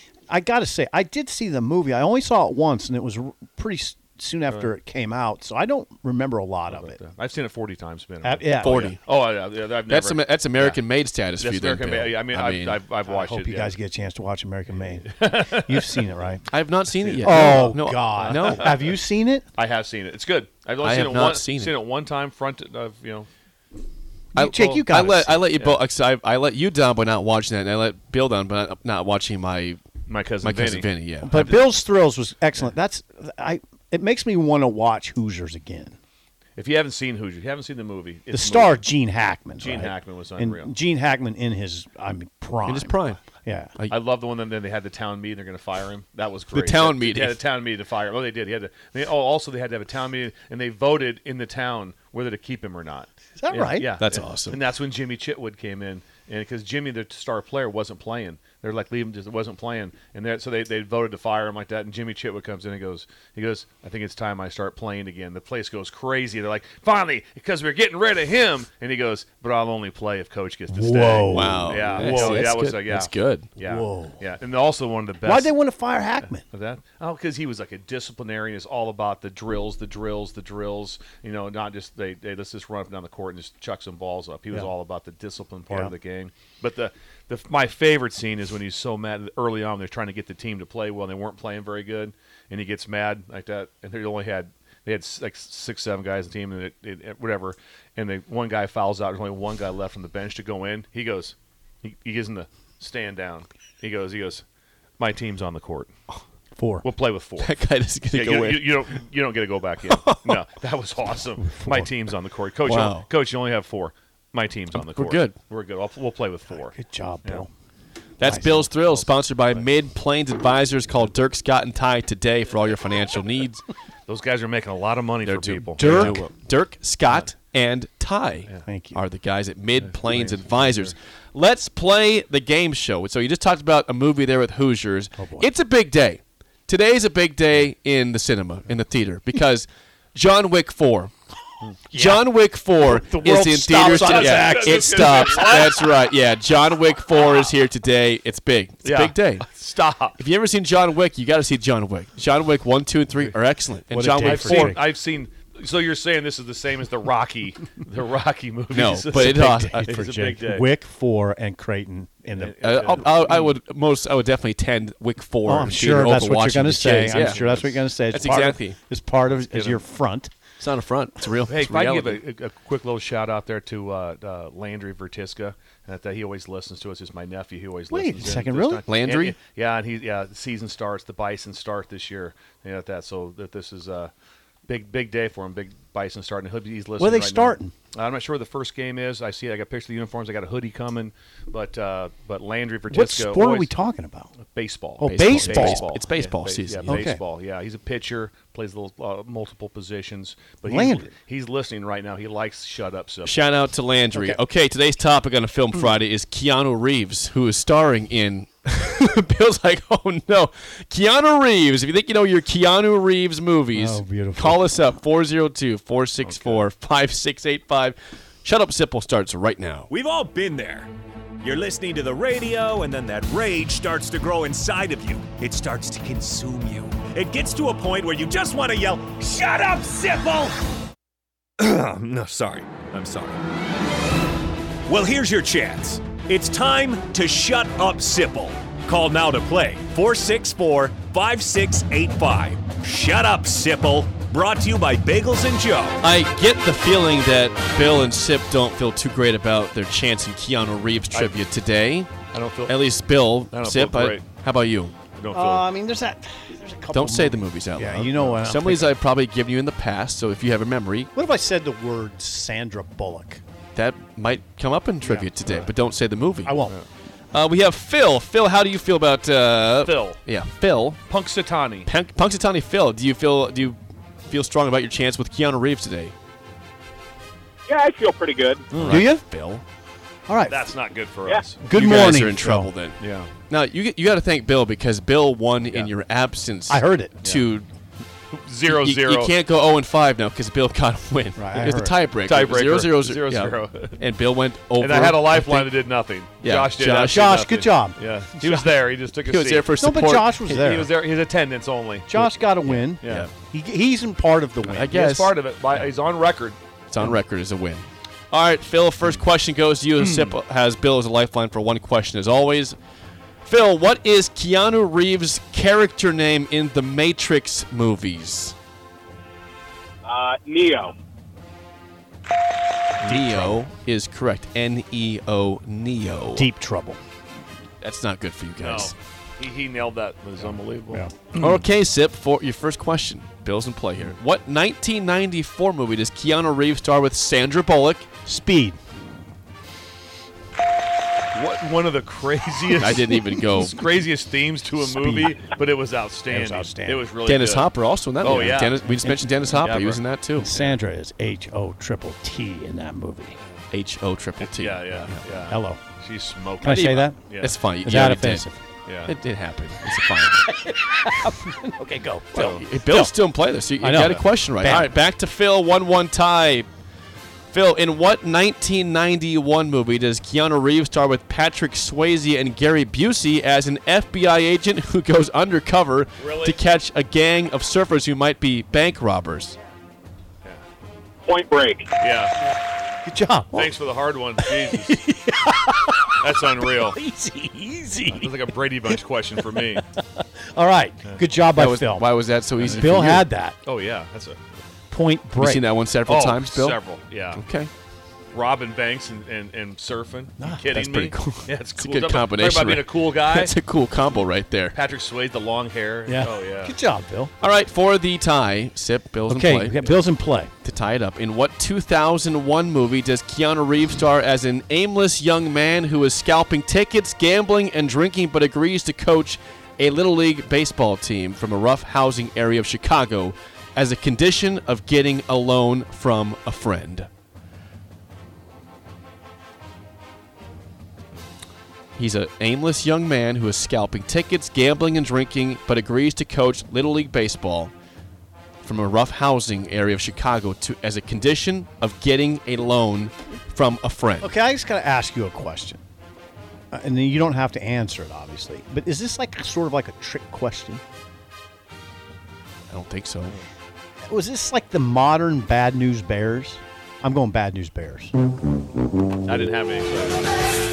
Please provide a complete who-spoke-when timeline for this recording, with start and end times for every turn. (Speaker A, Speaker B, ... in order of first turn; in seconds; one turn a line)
Speaker A: 0.3-7.0
Speaker B: 6.7-10.8
Speaker A: 8.2-8.9
Speaker C: 8.6-9.0
Speaker C: 9.8-12.8
Speaker B: 11.4-13.8
Speaker A: 13.1-16.4
Speaker B: 14.7-16.1
Speaker C: 16.5-18.7
Speaker B: 17.0-18.9
Speaker A: 17.2-19.5
Speaker B: 19.6-23.3
Speaker C: 20.8-21.7
Speaker A: 24.3-25.4
Speaker C: 24.4-29.8
Speaker B: 24.4-24.8
Speaker B: 30.1-31.6
Speaker C: 30.4-31.3
Speaker A: 31.2-36.0
Speaker B: 36.6-38.8
Speaker A: 38.3-43.7
Speaker B: 39.6-40.7
Speaker C: 42.6-43.2
Speaker B: 43.9-75.5
Speaker C: 46.5-47.4
Speaker A: 53.4-53.9
Speaker C: 54.0-54.6
Speaker A: 70.7-72.6
Speaker C: 71.3-73.5
Speaker A: 73.6-74.2
Speaker A: 75.2-76.4
Speaker B: 76.2-104.4
Speaker B: 105.0-105.9
Speaker A: 106.5-106.8
Speaker B: 106.8-107.5
Speaker C: 107.4-108.7
Speaker B: 108.1-117.4
Speaker C: 109.9-110.4
Speaker A: 111.3-111.9
Speaker C: 112.6-113.0
Speaker C: 114.8-115.4
Speaker A: 116.5-117.5
Speaker C: 118.2-123.6
Speaker A: 118.2-118.7
Speaker B: 124.1-126.2
Speaker C: 125.2-141.1
Speaker A: 125.8-126.2
Speaker A: 128.6-129.0
Speaker B: 129.8-130.9
Speaker A: 135.2-135.5
Speaker A: 141.9-142.2
Speaker C: 141.9-149.4
Speaker A: 142.8-145.5
Speaker B: 143.8-145.8
Speaker B: 148.8-150.2
Speaker C: 150.2-154.7
Speaker A: 153.9-154.8
Speaker B: 154.2-160.7
Speaker C: 158.7-159.8
Speaker A: 159.1-162.6
Speaker B: 162.3-163.5
Speaker C: 162.6-167.4
Speaker A: 165.4-170.3
Speaker B: 167.0-167.8
Speaker C: 168.1-168.8
Speaker B: 169.3-169.8
Speaker C: 170.6-172.2
Speaker B: 171.5-184.1
Speaker A: 177.9-178.8
Speaker C: 178.8-179.4
Speaker B: 184.7-193.7
Speaker A: 187.0-187.7
Speaker A: 192.9-194.3
Speaker B: 194.4-203.4
Speaker A: 195.0-195.8
Speaker C: 195.0-197.0
Speaker A: 196.8-197.2
Speaker A: 200.7-201.1
Speaker C: 203.2-219.9
Speaker A: 204.1-204.4
Speaker A: 213.7-214.7
Speaker B: 216.2-216.6
Speaker D: 219.9-220.9
Speaker D: 221.4-230.6
Speaker B: 231.6-233.3
Speaker D: 234.9-246.1
Speaker C: 246.0-252.1
Speaker B: 251.1-251.4
Speaker B: 252.3-252.8
Speaker C: 252.7-255.0
Speaker B: 253.5-254.3
Speaker B: 255.1-255.7
Speaker A: 255.3-258.9
Speaker C: 256.9-261.1
Speaker B: 258.2-258.5
Speaker A: 261.1-263.4
Speaker C: 263.7-266.6
Speaker A: 265.0-265.3
Speaker A: 266.4-266.8
Speaker C: 267.3-271.0
Speaker B: 269.8-270.2
Speaker B: 271.1-271.9
Speaker C: 271.8-276.1
Speaker E: 277.7-278.7
Speaker B: 278.7-279.0
Speaker C: 278.7-279.6
Speaker A: 278.8-279.2
Speaker A: 280.3-280.7
Speaker B: 280.5-281.6
Speaker A: 281.6-282.7
Speaker C: 281.7-287.7
Speaker B: 283.0-283.3
Speaker B: 285.6-285.9
Speaker A: 286.7-287.2
Speaker B: 288.3-289.3
Speaker C: 288.6-295.7
Speaker A: 291.4-292.0
Speaker B: 292.2-294.0
Speaker B: 294.8-299.7
Speaker C: 296.4-297.3
Speaker A: 297.0-298.7
Speaker C: 299.2-300.6
Speaker A: 299.8-300.9
Speaker B: 300.5-302.3
Speaker A: 302.1-304.9
Speaker C: 302.7-303.3
Speaker B: 303.0-303.3
Speaker B: 304.7-306.6
Speaker C: 304.7-305.8
Speaker C: 306.9-312.8
Speaker B: 310.0-310.4
Speaker C: 313.4-318.5
Speaker E: 320.0-321.0
Speaker C: 323.0-326.4
Speaker A: 323.1-323.6
Speaker A: 326.3-327.0
Speaker C: 327.8-328.9
Speaker B: 328.6-331.6
Speaker C: 331.3-338.1
Speaker A: 338.2-338.8
Speaker B: 341.3-347.7
Speaker C: 342.7-343.8
Speaker A: 344.8-345.4
Speaker A: 346.3-347.1
Speaker C: 347.2-350.5
Speaker B: 348.2-348.9
Speaker A: 348.8-349.3
Speaker B: 349.5-350.8
Speaker A: 350.4-353.4
Speaker B: 353.4-353.7
Speaker C: 353.7-355.2
Speaker B: 354.4-357.6
Speaker A: 355.5-355.8
Speaker A: 356.6-357.2
Speaker C: 356.7-358.4
Speaker A: 357.8-358.6
Speaker B: 358.9-359.1
Speaker C: 359.1-360.5
Speaker A: 360.3-363.1
Speaker C: 362.3-366.7
Speaker B: 362.3-362.6
Speaker A: 363.8-364.9
Speaker C: 367.5-379.6
Speaker B: 376.2-376.6
Speaker E: 381.2-381.9
Speaker B: 382.0-382.4
Speaker A: 383.0-383.7
Speaker B: 383.5-385.0
Speaker A: 384.4-388.4
Speaker B: 386.2-387.0
Speaker B: 388.1-389.8
Speaker A: 388.9-392.1
Speaker C: 391.5-393.3
Speaker B: 392.6-392.9
Speaker A: 392.6-393.6
Speaker B: 393.6-394.6
Speaker A: 394.9-395.6
Speaker C: 395.4-396.8
Speaker B: 396.1-397.4
Speaker C: 397.3-397.7
Speaker B: 398.3-403.5
Speaker A: 400.4-400.9
Speaker C: 400.7-404.8
Speaker B: 404.7-406.7
Speaker A: 406.1-407.3
Speaker C: 407.4-409.7
Speaker A: 409.3-410.5
Speaker C: 410.6-427.1
Speaker C: 431.9-437.7
Speaker C: 438.6-444.3
Speaker A: 444.2-445.8
Speaker A: 446.7-450.8
Speaker C: 452.7-453.3
Speaker A: 454.1-458.1
Speaker B: 459.2-460.4